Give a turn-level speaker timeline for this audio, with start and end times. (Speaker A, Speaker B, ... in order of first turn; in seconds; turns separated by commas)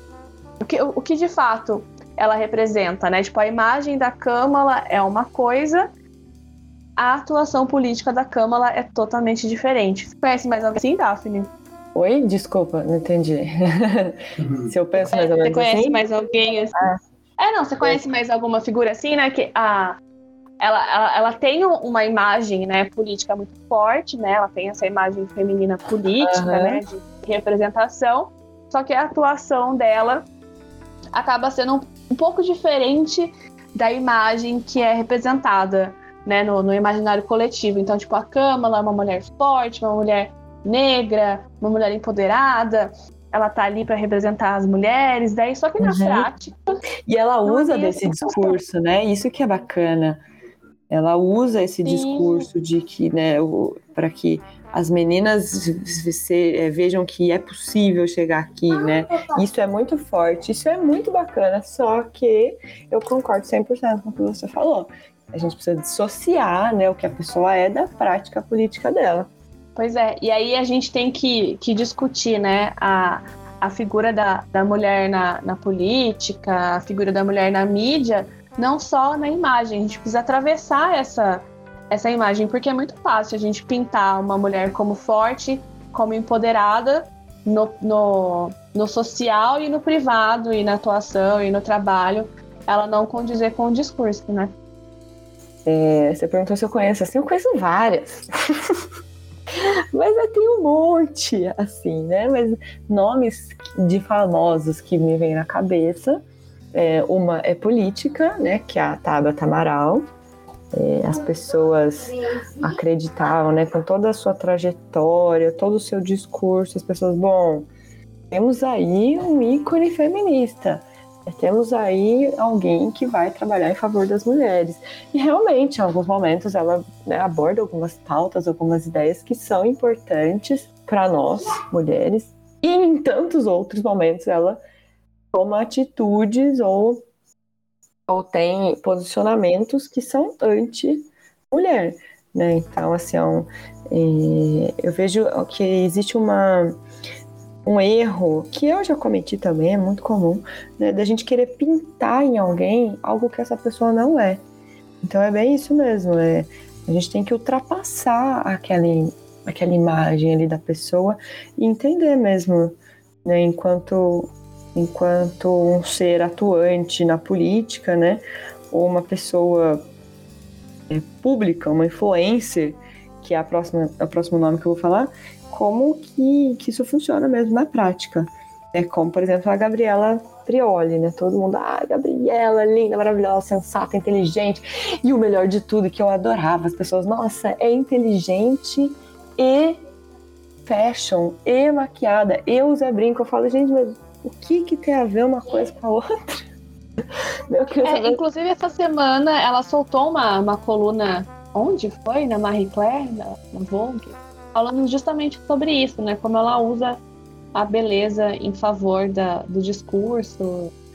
Speaker A: 0.6-5.9, Speaker A: 7.0-11.5, Speaker B: 11.9-16.0, Speaker A: 15.0-16.7, Speaker A: 17.4-20.0, Speaker A: 20.6-30.2, Speaker B: 26.2-26.8, Speaker A: 31.1-46.8, Speaker B: 45.8-46.3, Speaker B: 47.1-50.2, Speaker A: 47.4-48.6, Speaker B: 50.9-69.3, Speaker A: 51.8-52.5, Speaker A: 69.8-94.5, Speaker B: 95.7-98.8, Speaker B: 99.5-110.1, Speaker B: 110.7-117.7, Speaker B: 118.3-134.6, Speaker B: 135.3-137.0, Speaker B: 138.1-146.8, Speaker B: 147.6-154.4, Speaker B: 155.0-169.8, Speaker B: 170.9-189.8, Speaker B: 190.7-196.4, Speaker B: 197.5-198.2, Speaker A: 197.8-207.0, Speaker A: 207.5-210.7